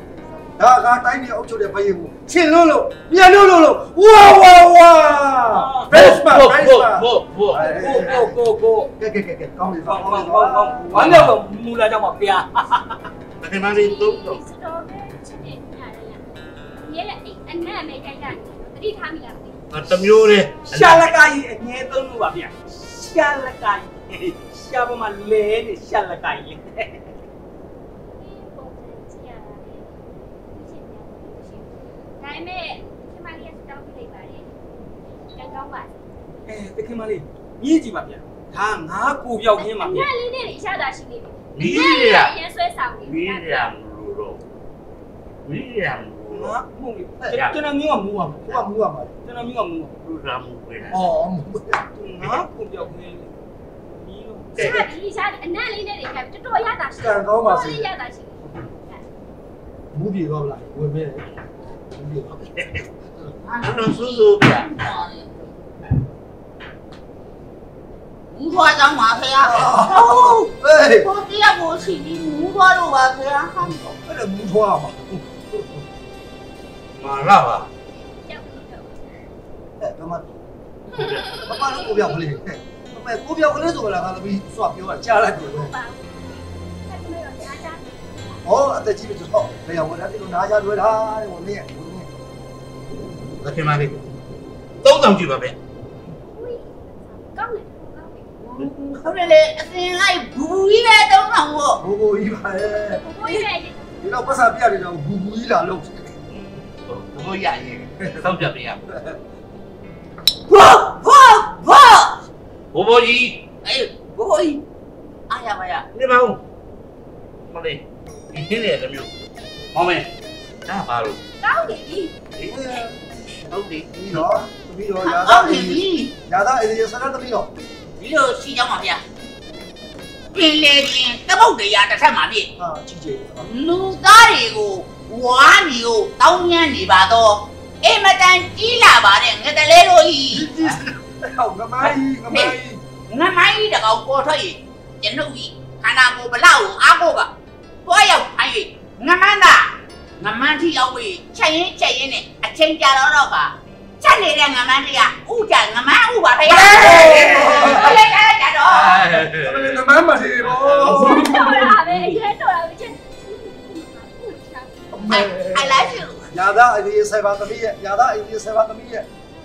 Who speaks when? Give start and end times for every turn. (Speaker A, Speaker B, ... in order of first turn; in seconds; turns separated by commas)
Speaker A: 0.5-8.4, Speaker B: 5.5-5.9, Speaker C: 5.9-7.7, Speaker B: 7.5-8.9, Speaker A: 9.0-11.3, Speaker B: 9.8-13.0, Speaker C: 10.9-11.3, Speaker C: 13.4-14.4, Speaker D: 13.7-16.2, Speaker D: 16.8-19.6, Speaker C: 19.7-21.1, Speaker B: 20.7-27.1, Speaker D: 28.1-34.5, Speaker D: 35.3-35.9, Speaker B: 36.5-40.1, Speaker D: 39.6-43.7, Speaker C: 41.5-42.3, Speaker C: 43.0-44.4, Speaker C: 45.4-46.5, Speaker B: 46.3-48.6, Speaker C: 47.3-47.5, Speaker A: 48.5-49.1, Speaker B: 49.2-49.9, Speaker C: 50.0-51.0, Speaker A: 50.9-51.8, Speaker B: 52.0-53.3, Speaker B: 53.8-54.6, Speaker C: 54.5-54.9, Speaker D: 54.5-59.0, Speaker A: 57.0-57.9, Speaker A: 59.9-61.3, Speaker A: 61.9-62.4, Speaker C: 62.5-62.8, Speaker E: 63.4-65.5, Speaker C: 63.6-64.7, Speaker E: 68.3-70.5, Speaker A: 69.4-71.1, Speaker E: 71.0-74.0, Speaker A: 74.0-75.8, Speaker C: 77.0-77.7, Speaker D: 78.1-79.0, Speaker A: 79.8-80.4, Speaker C: 80.9-81.3, Speaker A: 81.4-85.7, Speaker D: 85.3-88.0, Speaker A: 88.4-92.1, Speaker C: 93.4-94.0, Speaker C: 94.8-95.5, Speaker D: 96.3-98.3, Speaker E: 98.4-101.8, Speaker A: 101.8-103.0, Speaker D: 103.0-104.3, Speaker A: 104.0-106.1, Speaker C: 106.9-108.9, Speaker A: 108.9-109.1, Speaker E: 110.5-112.2, Speaker C: 112.7-113.4, Speaker E: 113.6-114.6, Speaker E: 115.3-115.8, Speaker C: 115.9-116.4, Speaker C: 117.5-119.1, Speaker C: 119.7-120.1, Speaker C: 120.7-121.2, Speaker D: 121.4-122.1, Speaker A: 122.5-122.9, Speaker C: 123.5-123.8, Speaker A: 123.9-127.5, Speaker E: 125.0-126.1, Speaker E: 128.0-129.0, Speaker E: 130.3-132.5, Speaker A: 132.6-133.5, Speaker E: 133.4-140.5, Speaker A: 140.3-142.8, Speaker E: 141.8-142.5, Speaker E: 143.1-147.3, Speaker E: 147.8-159.1, Speaker C: 156.5-158.1, Speaker A: 156.8-158.0, Speaker C: 158.7-159.8, Speaker A: 159.1-162.0, Speaker C: 160.4-161.8, Speaker D: 161.0-164.8, Speaker A: 164.9-169.1, Speaker E: 165.1-166.3